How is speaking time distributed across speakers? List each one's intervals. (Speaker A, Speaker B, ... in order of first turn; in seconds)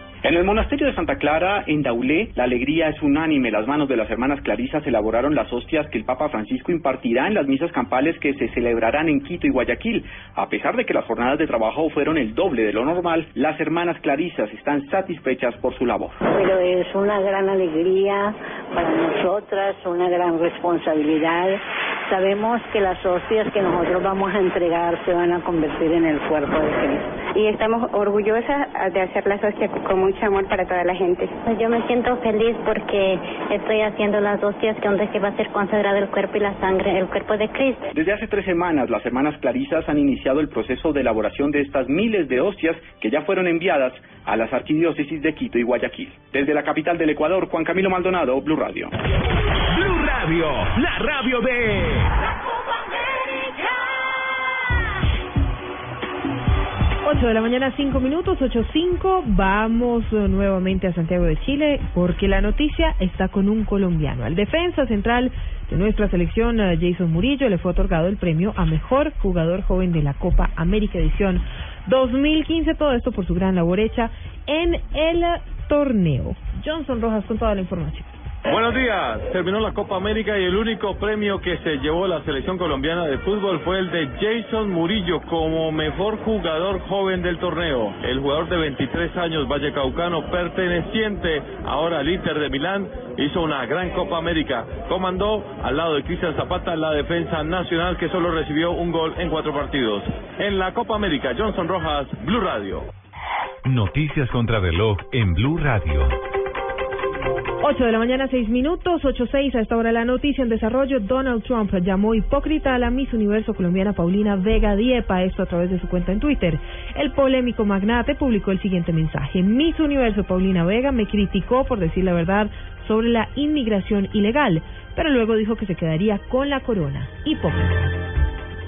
Speaker A: 0.2-16.2, 37.9-48.9
Speaker B: 16.4-21.5, 22.1-27.1
Speaker C: 27.3-31.4
Speaker D: 31.5-37.9
Speaker E: 57.0-78.1, 107.6-127.7
Speaker F: 78.5-102.9
Speaker G: 103.7-106.1